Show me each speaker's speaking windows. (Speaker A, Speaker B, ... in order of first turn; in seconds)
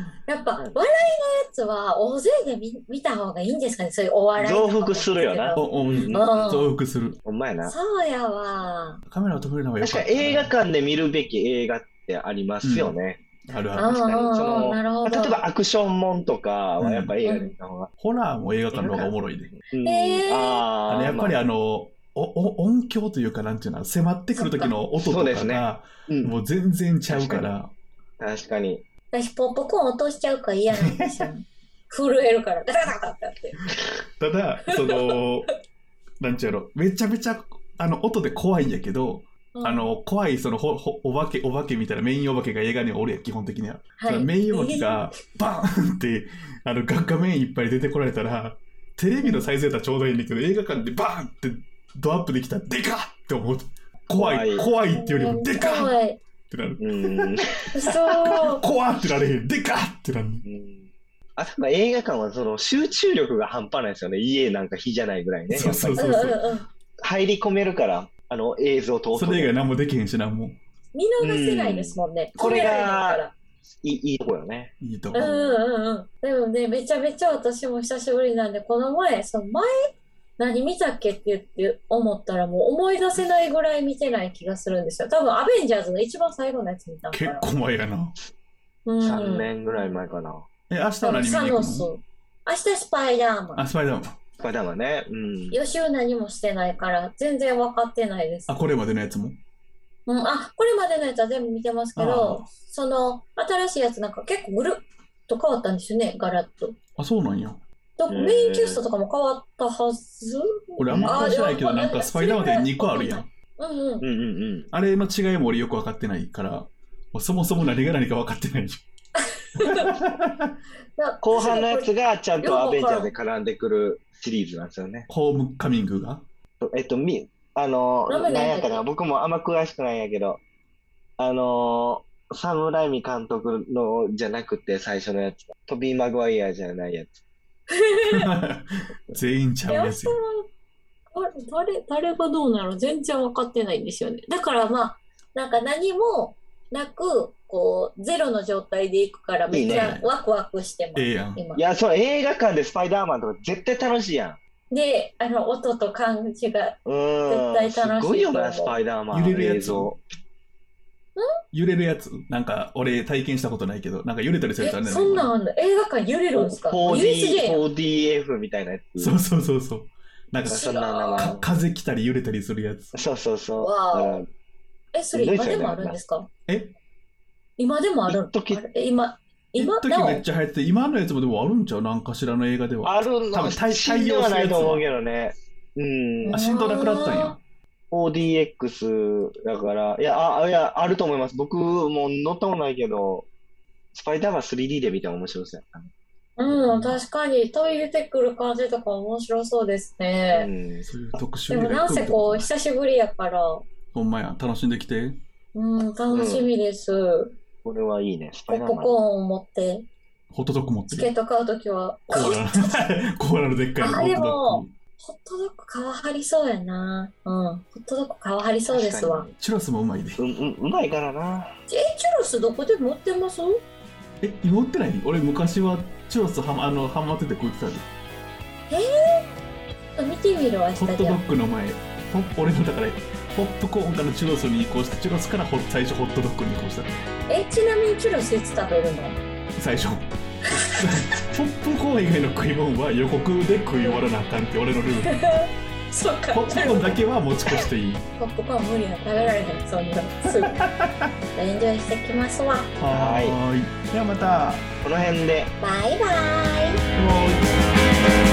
Speaker A: 0.3-6.7, 7.6-9.0, 13.7-15.4, 17.2-17.5, 19.8-20.6, 24.4-24.7, 29.1-33.6, 34.7-35.1, 39.5-39.9, 44.0-45.1, 54.6-56.2, 57.7-58.6, 65.9-66.7, 70.9-73.3, 75.1-87.5, 88.8-89.5, 91.0-93.6, 95.5-98.5, 100.0-106.7, 108.0-114.0, 119.5-119.9, 121.0-123.1, 128.1-128.8, 137.8-138.2, 139.7-140.5, 141.1-151.6, 154.7-158.8, 164.6-167.6, 170.5-171.3, 173.6-174.2, 174.9-176.3, 177.6-180.2, 186.2-187.3, 196.4-200.5, 201.5-203.6, 205.5-207.3, 208.5-209.8, 210.9-212.8, 213.8-219.3, 221.7-223.6, 228.7-229.3, 229.9-231.2, 237.3-239.2, 245.1-247.0, 248.2-250.6, 251.3-252.7, 255.6-256.8
Speaker B: 4.4-6.7, 7.2-7.7, 9.8-13.2, 13.9-17.9, 18.7-21.4, 25.0-26.3, 27.1-27.5, 28.2-28.8, 54.1-54.7, 56.8-57.6, 60.4-66.1, 67.0-69.5, 71.2-73.2, 73.8-75.6, 89.0-90.5, 94.4-95.5, 108.1-108.8, 110.9-111.3, 114.0-114.7, 121.2-125.1, 126.6-130.4, 131.2-137.2, 149.5-149.9, 151.6-154.4, 156.8-160.0, 166.3-169.2, 170.5-171.5, 172.9-174.3, 175.1-176.0, 178.1-178.6, 182.8-186.4, 187.9-193.3, 193.9-195.9, 200.3-200.9, 206.1-206.5, 207.6-209.0, 218.7-219.3, 220.2-221.5, 252.9-253.4, 254.8-255.5
Speaker C: 5.5-7.2, 9.1-10.5, 12.6-12.9, 13.5-13.9, 16.8-17.1, 18.0-19.5, 20.9-27.7, 30.7-31.2, 34.2-35.5, 36.2-56.0, 56.5-57.4, 57.9-60.4, 65.5-66.4, 69.1-70.6, 74.8-75.3, 87.1-88.2, 90.7-91.9, 93.5-94.2, 98.5-99.4, 102.0-102.4, 107.0-107.6, 110.8-113.3, 114.7-118.8, 119.8-120.5, 125.1-126.2, 138.0-140.2, 149.7-150.1, 150.9-151.4, 159.1-159.9, 161.5-165.3, 169.0-173.0, 176.5-176.7, 179.6-184.8, 186.3-187.4, 196.4-197.0, 200.8-202.5, 203.9-205.2, 210.3-211.1, 212.1-214.7, 219.4-220.2, 224.2-227.9, 230.8-236.9, 239.6-240.0, 240.8-245.1, 246.3-248.0, 250.4-251.1, 252.8-254.7, 256.9-257.5